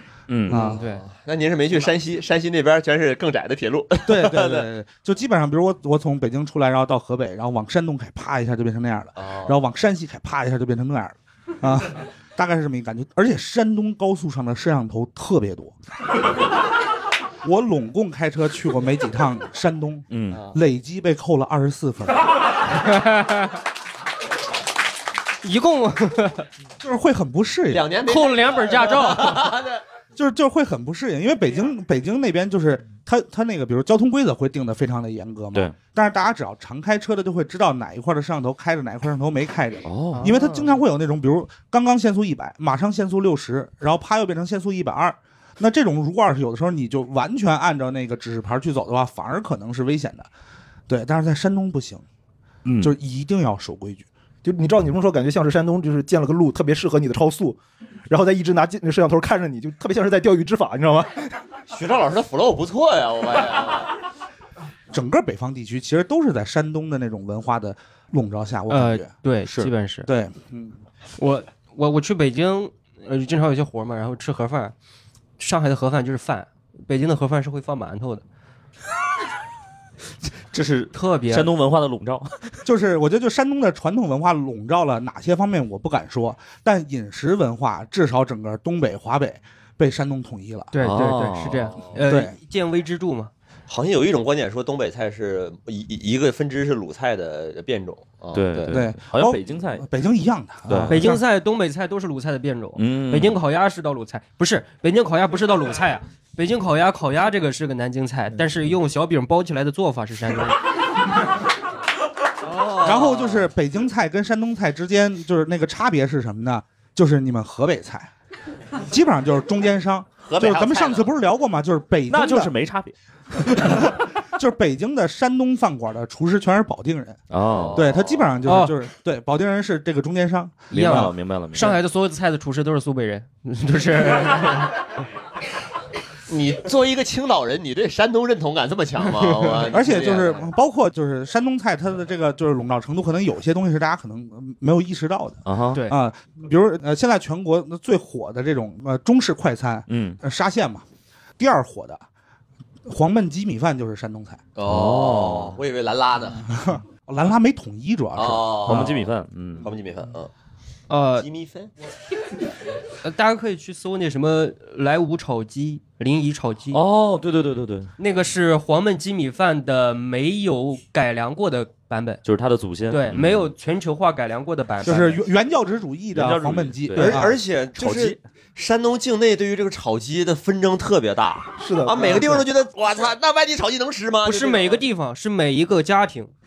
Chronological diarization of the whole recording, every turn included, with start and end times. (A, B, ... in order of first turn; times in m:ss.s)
0:00.3-0:00.6 A
0:00.5-0:00.8 B
0:00.5-0:04.7 C
0:00.6-0:01.0 D
0:04.0-0:15.7 B
0:09.2-0:09.6 C
0:17.4-0:22.2 B
0:20.1-0:20.4 A
0:23.0-0:23.4 D
0:25.4-0:26.4 D
0:26.8-0:27.9 B
0:27.7-0:29.8 C
0:28.0-0:29.5 D
0:30.2-0:50.3 B
0:39.8-0:40.7 A
0:50.9-0:52.0 B
0:52.6-0:53.0 A
0:52.8-0:54.1 B
0:54.4-0:57.6 E
0:58.1-1:01.2 E
1:01.7-1:04.0 C
1:04.9-1:09.1 B
1:08.7-1:10.1 D
1:10.1-1:10.8 B
1:11.2-1:14.7 D
1:15.4-1:18.2 D
1:20.5-1:22.6 A
1:20.9-1:21.5 D
1:22.6-1:30.7 B
1:30.7-1:33.3 D
1:30.8-1:31.7 A
1:32.0-1:32.3 B
1:33.7-1:38.8 C
1:38.3-1:39.9 A
1:38.7-1:41.2 B
1:40.7-1:41.0 A
1:40.9-1:50.6 D
1:42.8-1:43.4 A
1:52.4-1:53.5 C
1:52.8-1:58.1 B
1:58.8-2:02.5 B
2:00.2-2:01.1 C
2:02.1-2:03.0 A
2:03.5-2:11.1 B
2:07.3-2:07.9 A
2:07.5-2:08.3 C
2:08.4-2:08.8 D
2:10.7-2:11.8 A
2:10.7-2:14.8 D
2:16.3-2:20.5 C
2:19.7-2:30.8 B
2:25.5-2:25.8 A
2:29.9-2:30.2 A
2:31.4-2:32.0 B
2:32.9-2:34.4 B
2:34.6-2:36.5 C
2:34.6-2:35.6 A
2:36.5-2:38.9 B
2:38.2-2:39.1 C
2:38.6-2:39.7 A
2:39.6-2:40.3 C
2:40.9-2:41.3 D
2:41.2-2:41.7 C
2:43.0-2:46.8 D
2:46.7-2:47.9 A
2:48.0-2:52.2 D
2:52.2-2:53.5 A
2:52.9-2:55.2 D
2:54.8-2:57.4 B
2:56.1-2:58.2 A
2:57.0-3:04.8 C
3:01.6-3:02.4 E
3:04.2-3:06.3 D